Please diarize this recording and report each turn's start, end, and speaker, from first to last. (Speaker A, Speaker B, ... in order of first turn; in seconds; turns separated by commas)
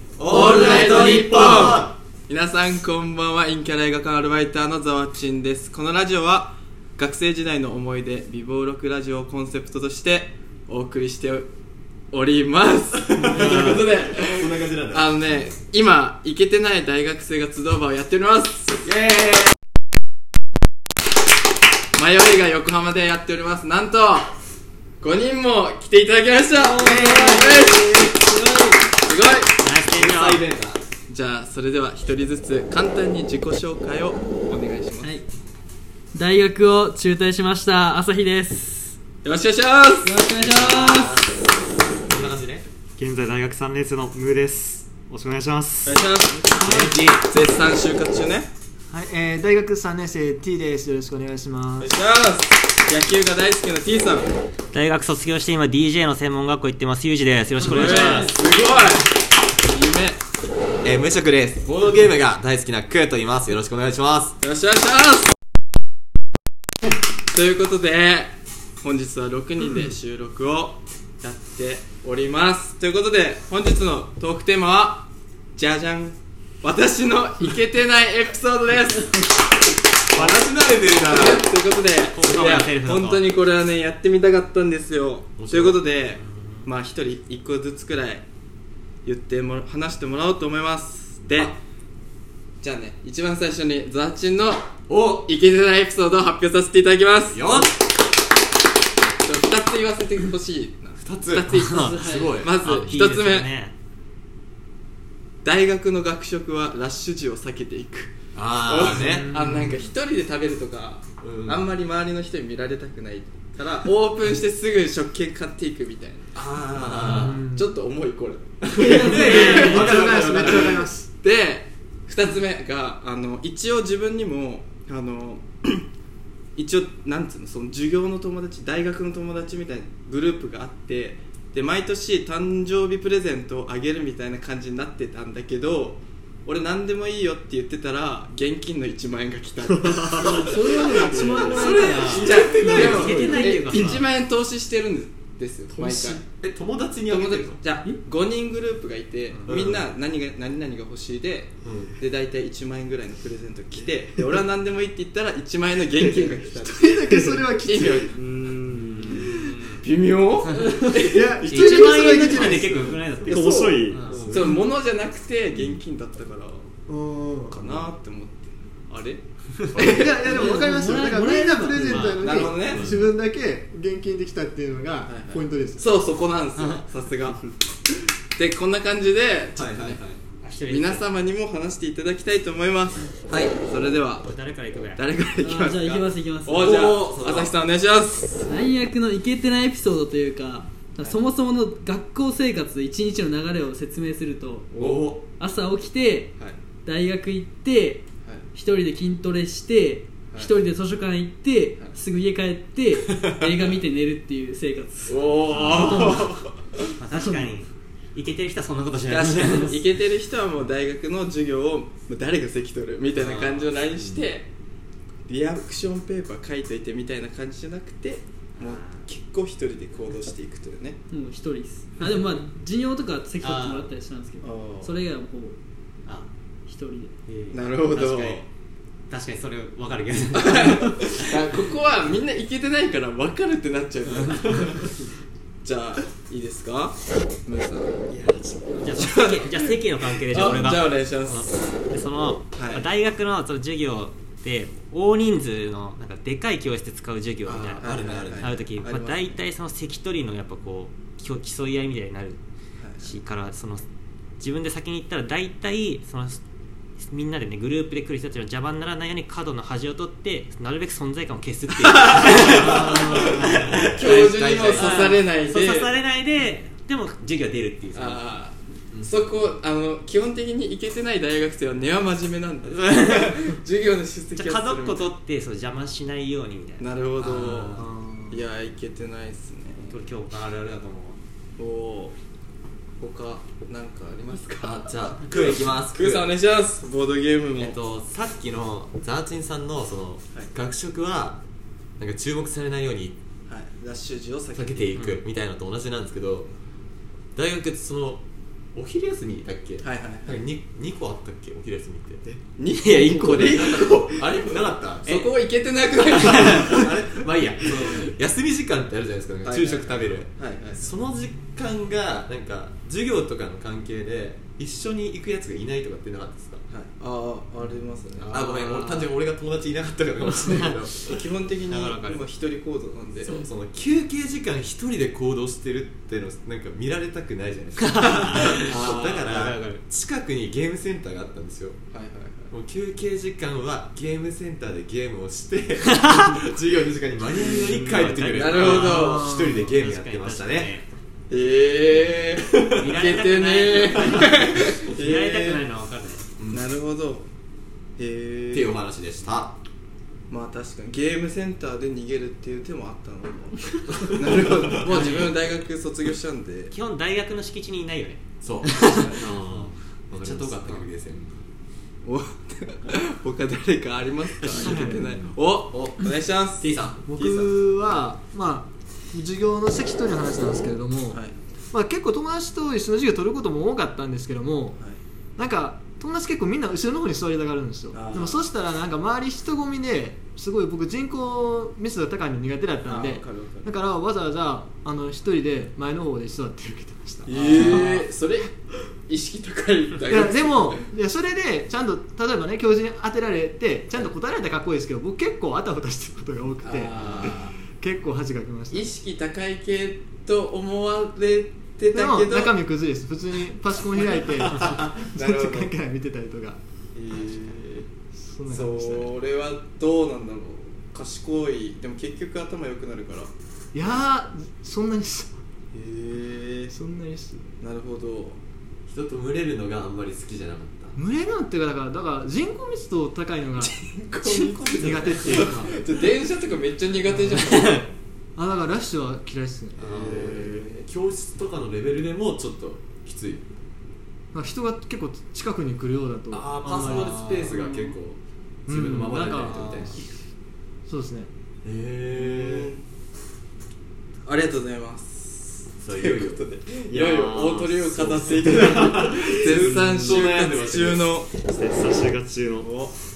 Speaker A: 0.2-2.0, Speaker B: 0.2-11.5, Speaker B: 12.1-18.9, Speaker A: 13.2-15.2, Speaker A: 18.9-19.5, Speaker B: 22.0-24.3, Speaker B: 25.0-28.1, Speaker C: 26.5-28.9, Speaker A: 26.8-28.1, Speaker B: 29.0-29.6, Speaker D: 29.6-30.4, Speaker A: 29.9-30.8, Speaker B: 31.1-35.1, Speaker C: 36.1-39.0, Speaker B: 39.2-40.2, Speaker C: 40.0-41.2, Speaker A: 40.4-41.4, Speaker A: 42.1-42.7, Speaker E: 43.0-46.0, Speaker B: 45.8-48.5, Speaker A: 46.5-47.2, Speaker C: 46.6-46.9, Speaker F: 48.9-51.9, Speaker B: 51.8-54.3, Speaker D: 54.7-58.3, Speaker B: 57.6-59.1, Speaker C: 57.6-58.3, Speaker B: 59.6-60.2, Speaker A: 60.8-64.3, Speaker B: 64.4-65.3, Speaker B: 67.3-68.3, Speaker B: 68.8-79.4, Speaker A: 80.1-81.5, Speaker B: 81.0-88.2, Speaker D: 82.1-83.2, Speaker A: 85.3-85.8, Speaker D: 86.2-86.7, Speaker B: 89.0-91.5, Speaker A: 91.3-91.5, Speaker B: 92.6-97.6, Speaker A: 94.9-95.3, Speaker A: 97.2-97.8, Speaker B: 99.2-103.5, Speaker A: 101.0-102.7, Speaker D: 101.5-101.9, Speaker C: 101.7-102.4, Speaker D: 102.6-103.7, Speaker B: 105.4-116.3, Speaker A: 108.3-109.4, Speaker A: 111.2-111.7, Speaker A: 116.3-117.5, Speaker B: 117.0-125.8, Speaker F: 117.1-117.6, Speaker A: 118.6-120.9, Speaker F: 118.8-121.1, Speaker C: 118.8-119.8, Speaker B: 126.6-146.2, Speaker C: 140.1-142.5, Speaker D: 141.4-144.1, Speaker A: 141.5-143.2, Speaker F: 142.8-143.4, Speaker A: 146.2-147.7, Speaker B: 147.1-158.1, Speaker A: 149.4-149.9, Speaker A: 151.6-151.9, Speaker F: 156.0-158.3, Speaker D: 158.4-159.6, Speaker B: 159.8-161.5, Speaker D: 160.4-160.9, Speaker F: 161.0-164.0, Speaker D: 161.4-164.4, Speaker E: 163.2-164.1, Speaker A: 164.0-164.6, Speaker B: 164.3-166.7, Speaker A: 165.5-165.8, Speaker F: 166.9-167.6, Speaker B: 167.5-169.2, Speaker B: 169.7-170.4, Speaker F: 169.8-175.9, Speaker C: 170.3-171.9, Speaker D: 171.7-173.0, Speaker B: 172.1-172.9, Speaker A: 172.8-173.0, Speaker B: 175.1-177.4, Speaker D: 176.6-176.8, Speaker B: 178.3-180.0, Speaker A: 179.5-180.2, Speaker D: 180.4-181.1, Speaker B: 180.7-184.4, Speaker A: 183.3-183.6, Speaker D: 184.2-185.0, Speaker B: 184.9-188.5, Speaker C: 185.4-186.8, Speaker A: 186.5-187.6, Speaker C: 188.4-194.8, Speaker B: 191.0-191.2, Speaker A: 194.8-195.2, Speaker B: 194.8-195.1, Speaker C: 195.3-205.2, Speaker B: 198.2-198.5, Speaker B: 200.3-200.5, Speaker A: 203.1-203.5, Speaker B: 205.1-206.9, Speaker D: 205.5-206.3, Speaker C: 205.9-206.2, Speaker D: 207.0-209.8, Speaker C: 207.2-207.5, Speaker B: 209.1-214.5, Speaker D: 213.1-213.8, Speaker B: 215.3-221.0, Speaker D: 218.6-219.1, Speaker C: 221.1-225.6, Speaker D: 222.0-222.3, Speaker D: 223.4-223.9, Speaker B: 224.4-225.0, Speaker C: 226.7-227.1, Speaker D: 227.3-228.4, Speaker B: 227.5-228.4, Speaker D: 229.1-231.5, Speaker B: 230.3-234.9, Speaker D: 234.1-234.8, Speaker B: 235.6-238.1, Speaker F: 238.1-238.8, Speaker D: 238.8-252.4, Speaker B: 238.9-241.5, Speaker B: 242.5-242.9, Speaker B: 247.5-249.4, Speaker A: 247.5-248.5, Speaker B: 252.8-253.1, Speaker D: 253.0-253.8, Speaker D: 254.4-256.4, Speaker D: 257.0-268.2, Speaker B: 261.8-265.9, Speaker A: 262.4-265.2, Speaker B: 267.9-275.1, Speaker A: 268.9-269.2, Speaker D: 272.6-273.4, Speaker D: 274.4-276.9, Speaker B: 276.8-277.8, Speaker A: 277.2-277.9, Speaker F: 277.8-278.4, Speaker B: 278.3-279.9, Speaker D: 279.8-281.2, Speaker B: 281.6-282.1, Speaker B: 283.0-287.8, Speaker A: 284.6-286.3, Speaker A: 287.6-291.4, Speaker A: 292.0-293.2, Speaker B: 293.5-294.8, Speaker A: 294.5-296.5, Speaker D: 294.9-295.2, Speaker A: 297.4-298.2, Speaker A: 298.7-302.4, Speaker B: 299.8-300.4, Speaker B: 302.6-306.9, Speaker D: 302.7-304.0, Speaker A: 303.4-305.2, Speaker D: 306.1-306.7, Speaker A: 306.6-316.6, Speaker B: 309.4-310.9, Speaker B: 316.7-319.1, Speaker A: 318.2-321.2, Speaker D: 320.4-320.9, Speaker B: 321.0-323.4, Speaker D: 321.7-322.2, Speaker A: 323.2-331.8, Speaker D: 327.8-329.8, Speaker B: 328.2-329.2, Speaker B: 331.9-332.5, Speaker A: 332.5-340.7, Speaker D: 335.9-336.2, Speaker B: 337.4-337.7, Speaker D: 337.4-340.9, Speaker B: 338.3-339.3, Speaker F: 338.8-339.7, Speaker B: 341.3-345.6, Speaker D: 342.8-346.2, Speaker A: 346.4-346.7, Speaker B: 346.5-347.3, Speaker B: 348.0-348.8, Speaker A: 348.5-349.6, Speaker B: 350.3-356.7, Speaker A: 353.9-355.3, Speaker D: 354.9-355.4, Speaker D: 356.7-359.7, Speaker A: 358.4-359.2, Speaker E: 359.2-360.6, Speaker A: 360.1-361.4, Speaker B: 362.1-368.1, Speaker A: 364.4-364.9, Speaker F: 364.6-365.1, Speaker E: 365.1-365.3, Speaker A: 365.7-366.0, Speaker A: 366.6-367.1, Speaker F: 367.1-371.2, Speaker B: 371.1-371.4, Speaker F: 371.7-374.8, Speaker B: 374.8-375.0, Speaker F: 375.4-388.0, Speaker B: 377.9-378.4, Speaker B: 382.9-383.7, Speaker B: 387.2-388.5, Speaker B: 389.1-390.9, Speaker F: 390.1-398.9, Speaker B: 396.6-397.5, Speaker D: 397.0-397.3, Speaker B: 398.7-402.6, Speaker F: 401.9-406.6, Speaker B: 404.0-405.7, Speaker B: 406.9-407.9, Speaker F: 408.3-409.1, Speaker B: 408.5-413.3, Speaker F: 413.7-415.3, Speaker B: 415.7-416.8, Speaker F: 416.7-417.4, Speaker B: 417.6-418.4, Speaker A: 418.9-420.9, Speaker F: 421.0-423.7, Speaker B: 423.6-427.9, Speaker D: 424.2-425.4, Speaker F: 424.8-425.8, Speaker D: 427.2-427.9, Speaker F: 428.4-430.5, Speaker A: 429.8-433.4, Speaker B: 429.9-430.8, Speaker F: 434.3-437.5, Speaker A: 436.3-440.0, Speaker C: 437.5-438.0, Speaker F: 438.7-439.9, Speaker F: 440.9-441.3, Speaker A: 441.6-442.7, Speaker B: 442.1-442.8, Speaker B: 444.2-451.3, Speaker A: 445.8-446.5, Speaker E: 446.9-449.0, Speaker A: 448.5-451.2, Speaker E: 451.4-452.7, Speaker B: 452.6-452.9